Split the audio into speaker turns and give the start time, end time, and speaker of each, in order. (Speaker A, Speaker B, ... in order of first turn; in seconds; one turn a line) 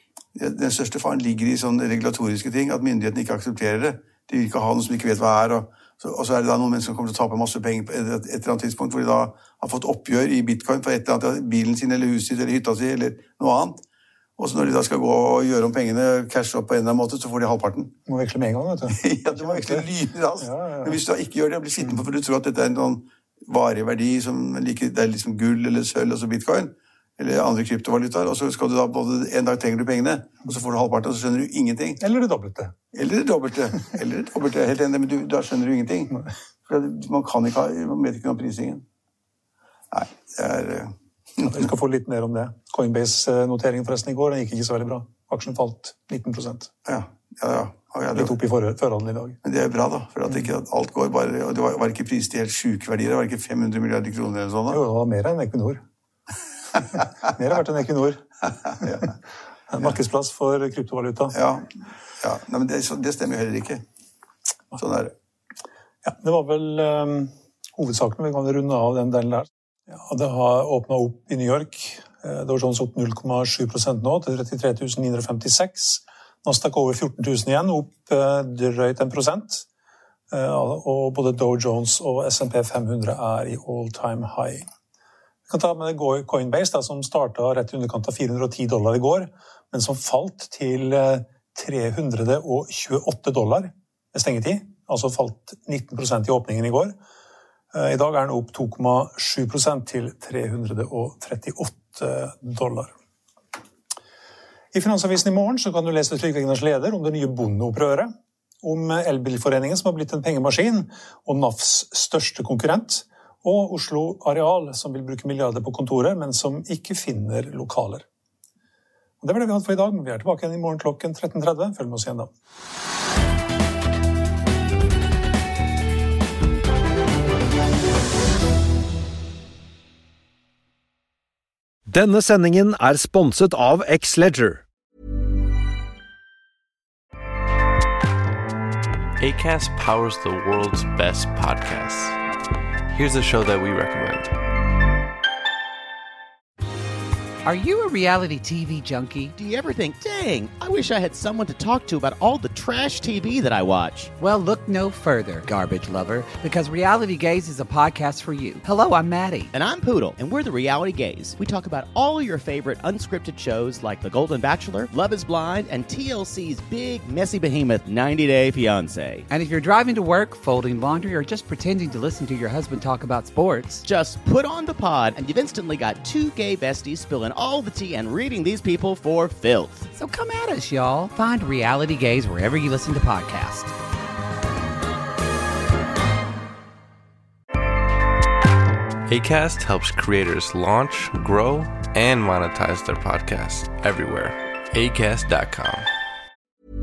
Speaker A: 0.3-13.8
Speaker A: 14.4-17.9
Speaker B: 18.1-19.9
Speaker A: 18.9-32.0
Speaker B: 20.4-21.0
Speaker B: 32.0-32.7
Speaker A: 32.9-36.1
Speaker A: 36.7-38.8
Speaker A: 39.9-41.5
Speaker B: 41.4-46.7
Speaker A: 46.9-48.4
Speaker B: 48.1-49.4
Speaker A: 49.4-54.8
Speaker B: 54.7-55.8
Speaker B: 56.9-58.2
Speaker B: 59.7-61.3
Speaker A: 61.3-63.8
Speaker A: 64.8-65.1
Speaker B: 66.0-79.7
Speaker B: 80.3-84.6
Speaker B: 85.5-96.9
Speaker B: 97.7-102.9
Speaker B: 104.7-108.1
Speaker B: 108.6-118.0
Speaker B: 119.2-122.3
Speaker C: 131.9-134.6
Speaker D: 139.2-142.2
Speaker D: 142.9-144.3
Speaker E: 147.4-149.3
Speaker F: 149.3-154.1
Speaker E: 154.2-159.5
Speaker F: 159.5-169.2
Speaker E: 169.3-173.8
Speaker F: 173.8-179.9
Speaker E: 180.0-183.7
Speaker D: 189.1-195.9